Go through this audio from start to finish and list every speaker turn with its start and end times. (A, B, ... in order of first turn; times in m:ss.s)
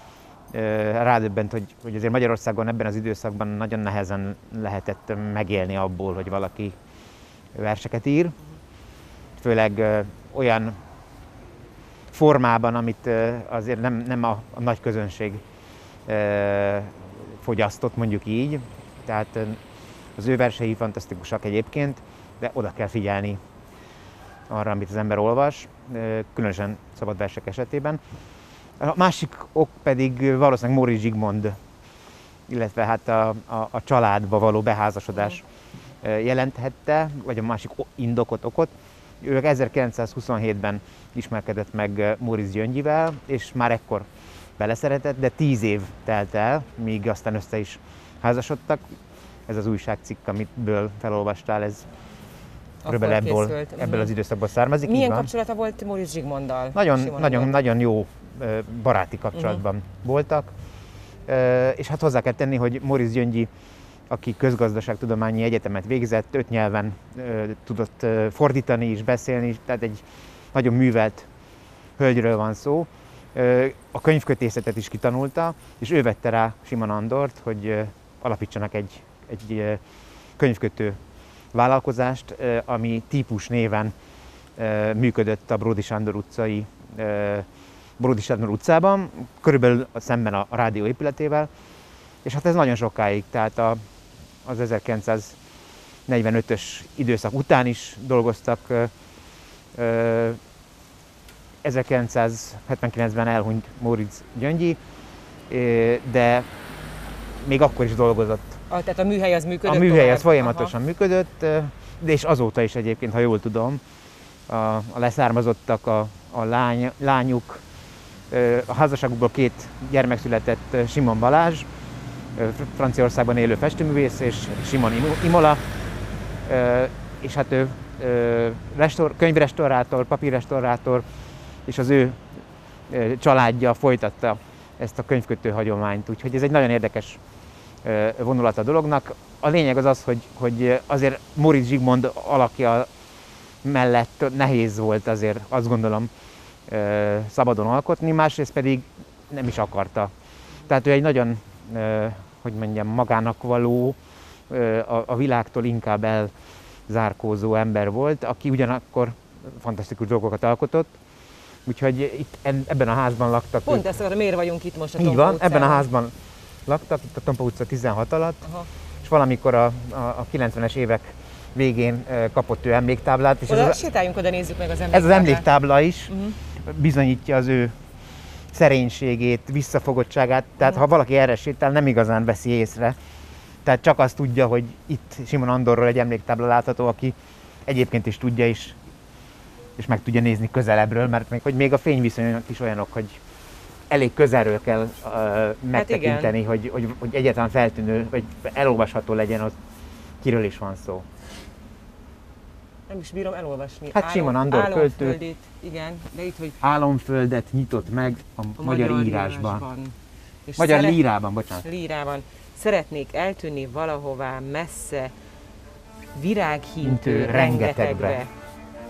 0:00.5-0:06.7 A
0:07.5-0:08.4 A
0:09.4-0:10.7 A
0:12.1-0:15.4 A
0:16.1-0:19.6 A
0:20.2-0:23.4 A
0:24.5-0:28.0 A
0:28.8-0:31.6 A
0:32.5-0:35.4 A
0:36.0-0:44.1 A
0:44.6-0:48.9 A
0:49.5-0:51.9 A
0:52.8-0:54.1 B
0:52.9-0:55.3 A
0:54.8-0:57.6 B
0:56.7-1:00.5 A
0:59.3-0:59.6 B
1:01.3-1:03.5 A
1:04.1-1:10.0 A
1:10.5-1:11.3 A
1:12.0-1:19.8 A
1:20.4-1:21.0 A
1:21.5-1:23.9 A
1:24.6-1:27.4 A
1:28.0-1:31.5 A
1:32.2-1:33.8 A
1:34.4-1:35.4 A
1:36.1-1:38.9 A
1:39.7-1:40.4 A
1:41.6-1:44.8 A
1:45.5-1:46.5 A
1:47.4-1:48.6 A
1:48.7-1:50.7 B
1:49.6-1:53.8 A
1:54.5-1:57.6 A
1:58.3-2:01.7 A
2:02.4-2:05.6 A
2:06.4-2:11.0 A
2:11.6-2:12.2 A
2:12.9-2:17.2 A
2:17.8-2:22.9 A
2:23.6-2:26.1 A
2:26.7-2:30.1 A
2:30.6-2:34.0 A
2:34.5-2:36.3 A
2:36.9-2:41.0 A
2:41.6-2:43.9 A
2:43.6-2:45.9 B
2:45.0-2:46.1 A
2:46.7-2:48.4 A
2:49.0-2:53.8 A
2:53.5-2:55.5 B
2:54.9-2:57.7 A
2:56.1-2:56.4 B
2:58.5-3:03.0 A
3:03.6-3:07.1 A
3:07.6-3:08.8 A
3:09.8-3:13.2 A
3:13.9-3:19.5 A
3:15.7-3:16.4 B
3:20.2-3:21.0 A
3:22.9-3:26.6 B
3:23.9-3:25.2 A
3:26.6-3:29.6 A
3:28.6-3:29.9 B
3:30.4-3:31.0 B
3:30.6-3:31.6 A
3:31.5-3:35.1 B
3:36.1-3:38.3 B
3:36.8-3:38.2 A